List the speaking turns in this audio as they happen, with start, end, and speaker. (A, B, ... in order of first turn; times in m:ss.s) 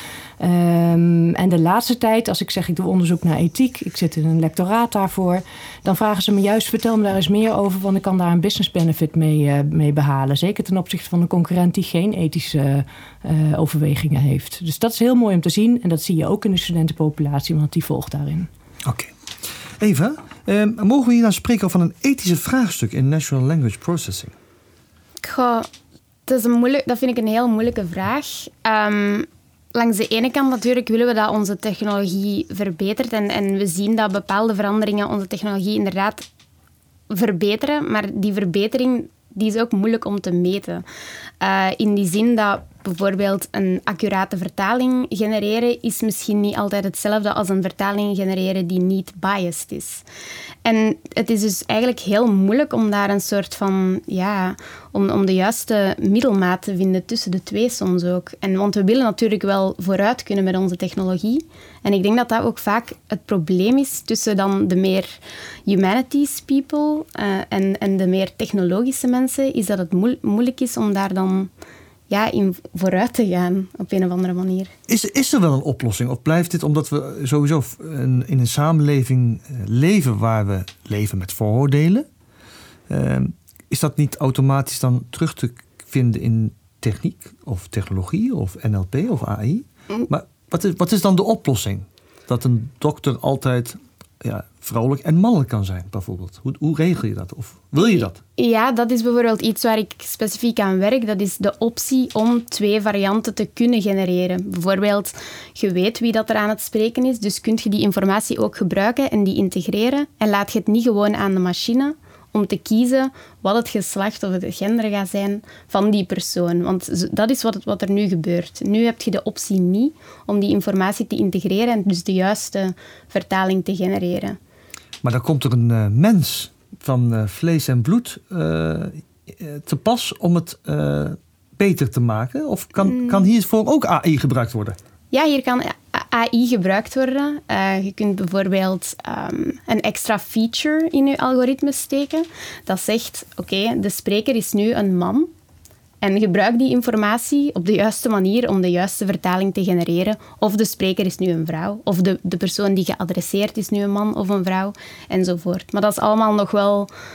0:00.4-0:18.5 A
0:18.8-0:19.1 B
0:19.8-0:24.3 B
0:25.2-0:25.7 C
0:26.3-0:36.2 C
0:37.1-0:40.8 C
0:41.4-0:50.0 C
0:50.6-1:11.5 C
1:12.1-1:14.7 C
1:14.9-1:22.0 B
1:22.9-1:38.2 B
1:37.8-2:04.4 C
2:05.0-2:14.8 B
2:12.9-2:13.2 C
2:15.1-2:25.3 C
2:26.0-2:36.9 C